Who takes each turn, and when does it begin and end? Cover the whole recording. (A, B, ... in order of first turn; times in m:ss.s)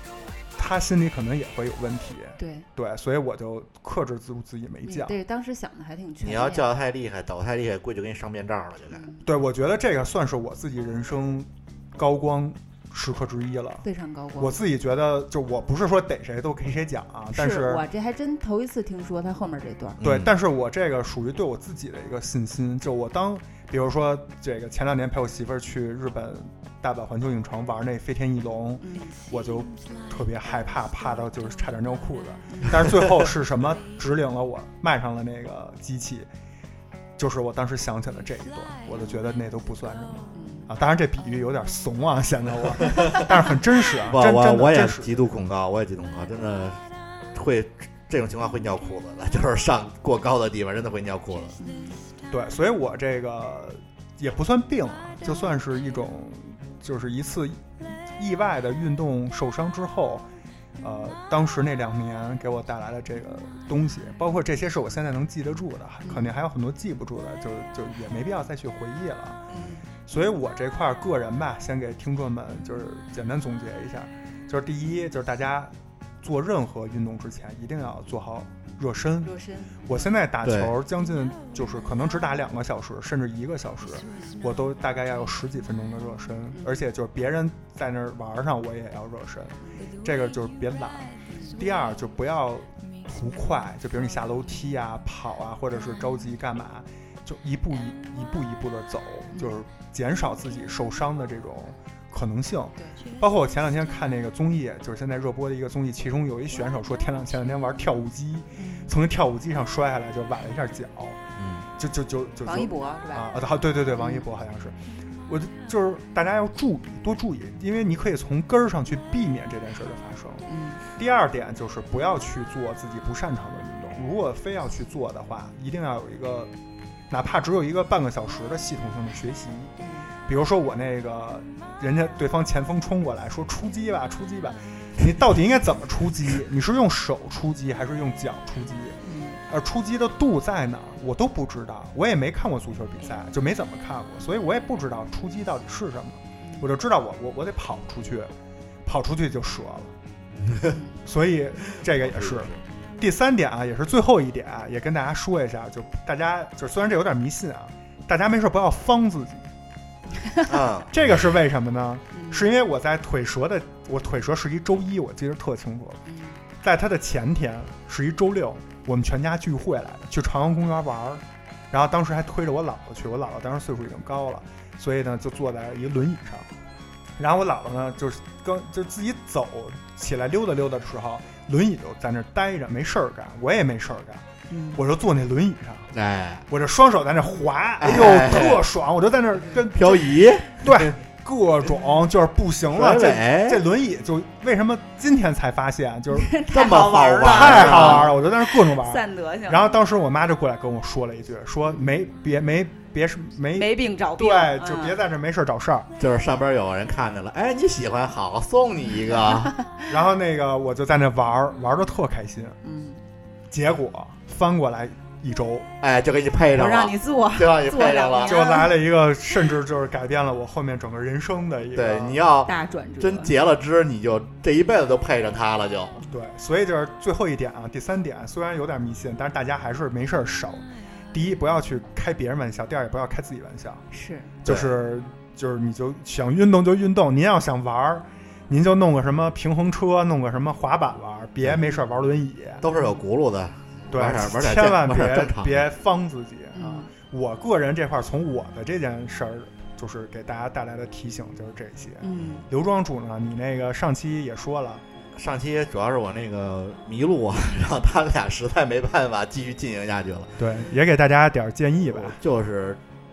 0:00.6-0:05.1 A
0:02.4-0:02.7 B
0:04.8-0:06.6 B
0:06.2-0:09.1 C
0:08.9-0:09.3 B
0:09.2-0:13.8 A
0:13.8-0:14.6 B
0:14.4-0:17.8 A
0:17.3-0:20.0 B
0:20.0-0:20.3 C
0:20.0-0:36.3 A
0:28.8-0:29.2 B
0:32.5-0:32.8 B
0:37.2-0:45.1 A
0:40.3-0:40.7 B
0:42.8-0:43.2 C
0:44.0-0:46.8 C
0:47.3-0:51.6 C
0:51.6-0:52.0 B
0:52.3-1:00.2 A
0:55.2-0:55.5 B
1:00.8-1:09.4 A
1:06.0-1:06.4 B
1:09.5-1:09.8 B
1:10.1-1:19.3 A
1:19.2-1:20.0 B
1:19.8-1:51.2 A
1:20.4-1:20.7 C
1:26.5-1:26.8 B
1:29.6-1:29.9 B
1:31.3-1:31.5 B
1:48.5-1:48.9 B
1:51.4-1:51.6 C
1:51.8-2:06.5 A
1:52.4-1:53.4 B
1:53.9-1:54.2 B
2:00.5-2:00.8 B
2:07.1-2:09.7 A
2:09.8-2:10.1 B
2:10.2-2:28.3 A
2:19.0-2:19.4 B
2:28.8-2:29.9 A
2:30.4-2:30.8 C
2:31.0-2:39.5 A
2:31.9-2:32.6 C
2:40.5-2:41.0 C
2:40.9-2:46.0 A
2:42.1-2:42.5 B
2:46.0-2:46.4 B
2:46.6-2:56.5 A
2:57.2-3:04.2 A
3:04.5-3:04.8 B
3:04.8-3:05.9 A
3:05.9-3:06.4 C
3:06.5-3:10.0 A
3:07.8-3:08.6 C
3:09.7-3:10.9 C
3:10.5-3:16.3 A
3:12.7-3:13.6 C
3:16.1-3:19.7 B
3:16.5-3:18.1 C
3:17.3-3:25.9 A
3:23.5-3:25.0 B
3:26.0-3:29.5 C
3:29.9-3:32.6 A
3:32.6-3:33.0 B
3:33.5-3:35.7 A
3:35.8-3:38.4 C
3:36.5-3:38.7 B
3:38.2-3:42.2 A
3:41.7-3:46.0 C
3:42.4-3:43.4 B
3:46.0-3:53.8 A
3:53.9-3:54.3 B
3:54.4-4:02.6 A
4:02.6-4:05.7 C
4:03.9-4:14.8 A
4:06.5-4:06.9 B
4:12.0-4:12.4 B
4:15.1-4:20.4 C
4:20.4-4:22.2 A
4:21.9-4:22.8 C